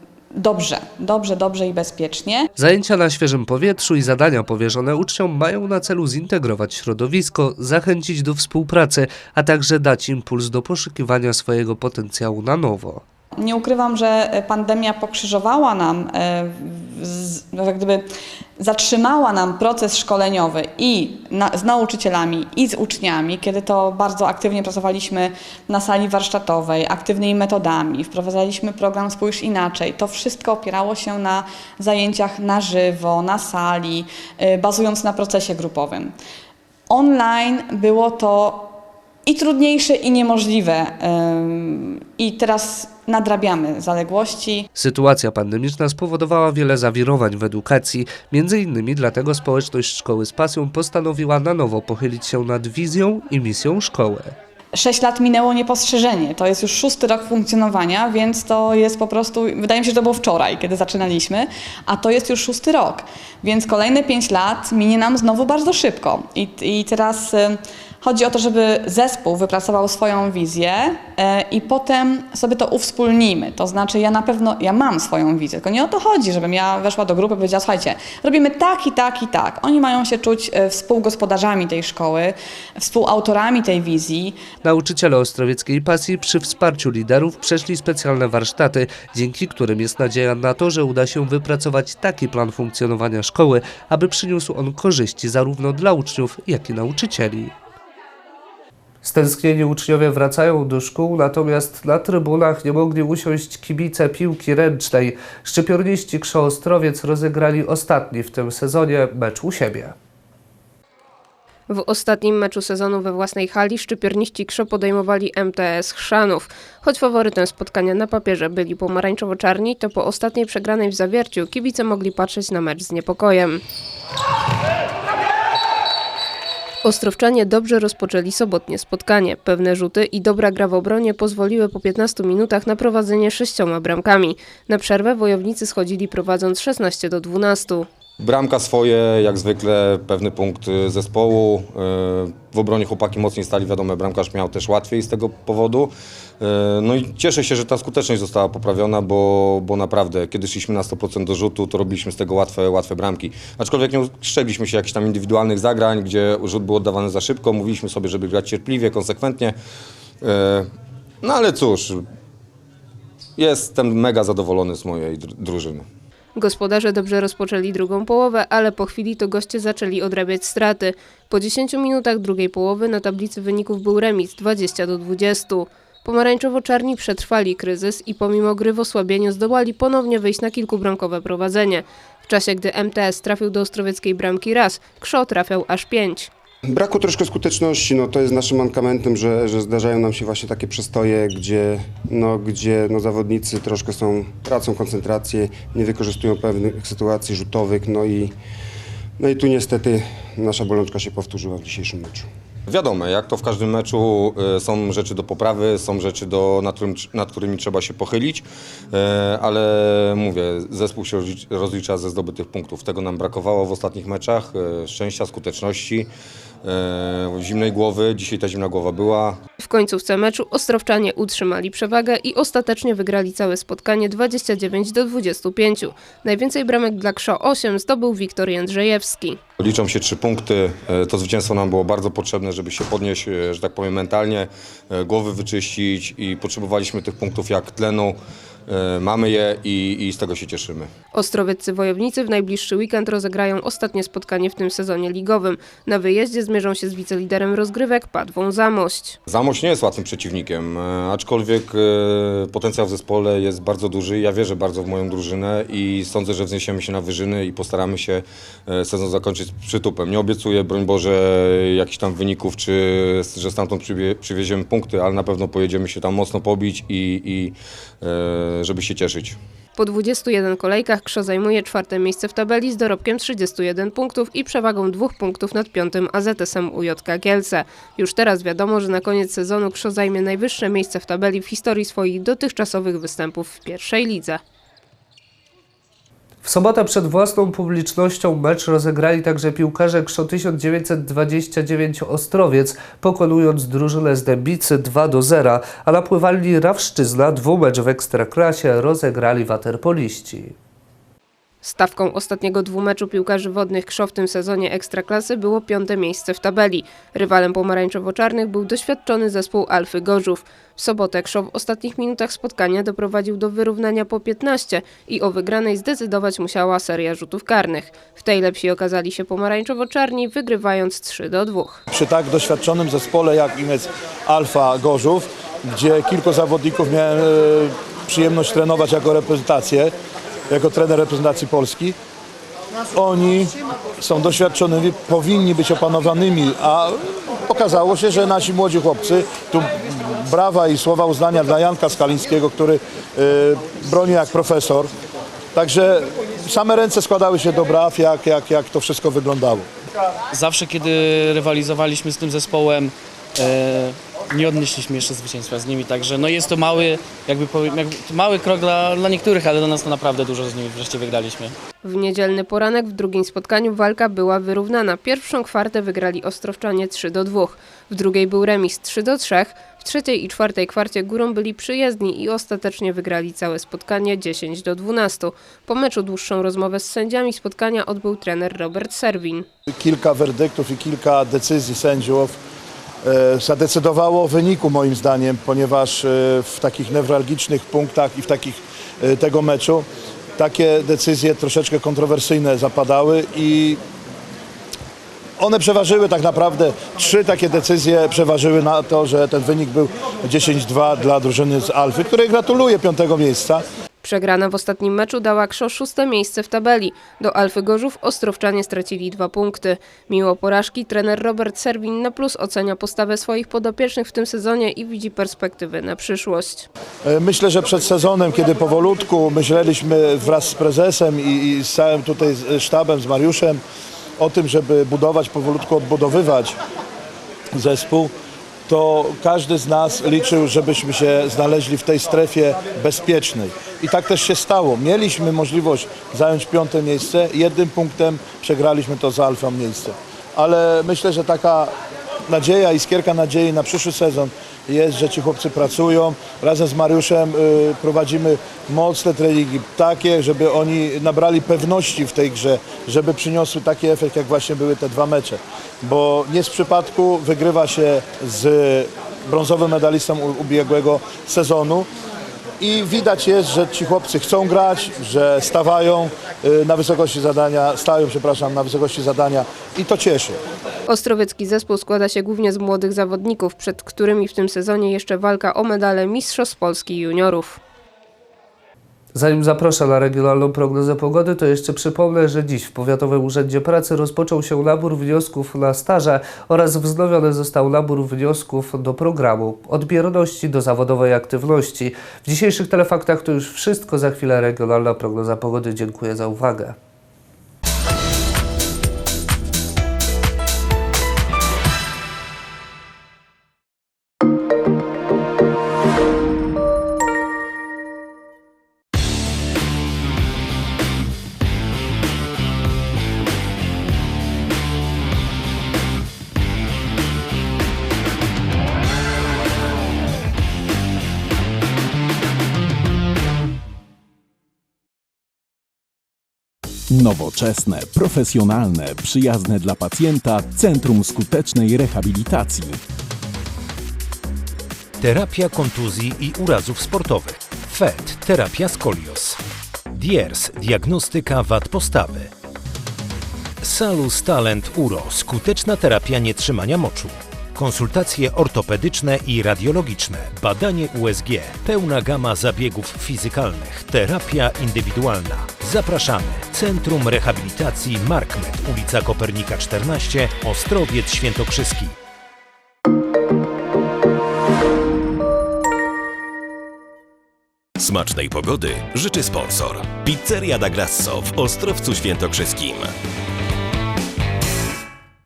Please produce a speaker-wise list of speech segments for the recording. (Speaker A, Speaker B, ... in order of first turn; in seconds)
Speaker A: 0.3-2.5, 13.4-18.1, 18.6-36.1, 36.9-38.7, 39.2-44.6, 54.8-84.4
Speaker B: 2.5-13.0, 44.8-54.4, 84.6-97.5, 99.0-110.0, 286.4-300.5, 479.1-496.8
Speaker C: 111.7-123.6, 126.8-137.9, 166.3-186.3, 219.6-229.4, 241.1-249.2, 269.8-284.4, 301.6-321.8, 361.8-379.5, 404.0-416.7, 470.9-477.6
Speaker D: 138.2-159.6, 160.2-160.7, 161.2-162.0, 163.4-165.9, 202.7-216.1, 216.6-219.4, 229.6-240.9, 249.3-269.4
Speaker E: 186.7-198.3, 199.2-202.3
Speaker F: 321.9-329.9, 330.5-331.9, 332.9-344.9, 345.5-349.6, 379.7-382.3, 383.0-389.8, 390.4-393.8, 395.4-403.6, 417.0-423.6, 424.2-426.6, 427.5-428.1, 428.7-441.7, 442.3-461.9, 462.6-470.4
Speaker G: 350.3-361.5
Speaker H: 526.9-532.8
Speaker I: 535.0-539.4, 539.9-542.3, 543.6-561.9
Speaker J: 567.8-572.9